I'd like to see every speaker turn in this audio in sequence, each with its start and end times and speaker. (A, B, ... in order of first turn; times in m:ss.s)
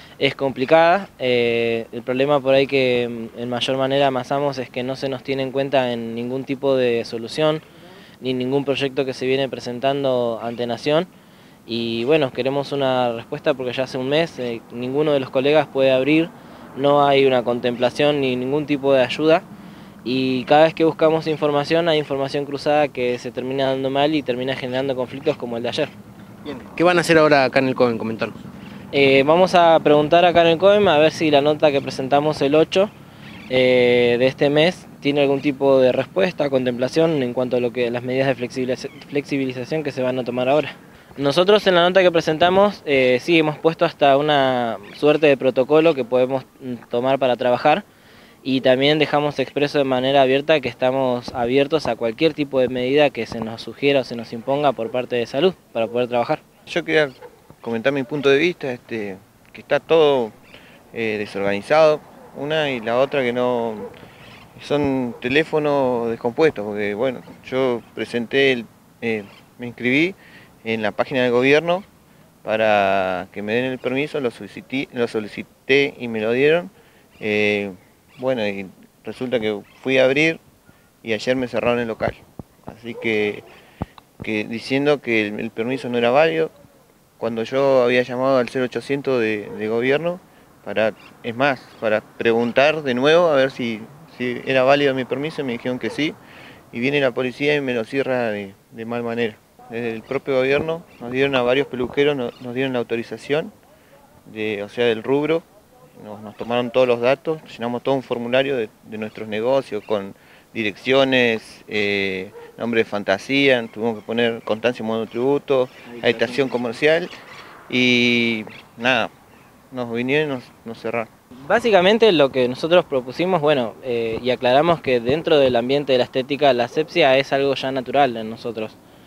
0:00.2-0:07.6 A
0:08.2-0:11.1 A
0:11.7-0:19.4 A
0:20.0-0:25.9 A
0:26.4-0:28.4 B
0:28.9-0:32.9 A
0:33.5-0:47.8 A
0:48.4-0:56.4 A
0:56.7-1:00.3 C
1:00.9-1:03.9 C
1:04.6-1:11.9 C
1:12.4-1:20.4 C
1:21.0-1:23.4 C
1:24.2-1:26.5 C
1:27.2-1:36.2 C
1:36.7-1:43.5 C
1:44.3-1:45.4 C
1:46.0-1:57.1 C
1:56.0-1:56.6 A
1:57.7-1:59.1 C
1:59.7-2:01.1 C
2:01.5-2:08.8 A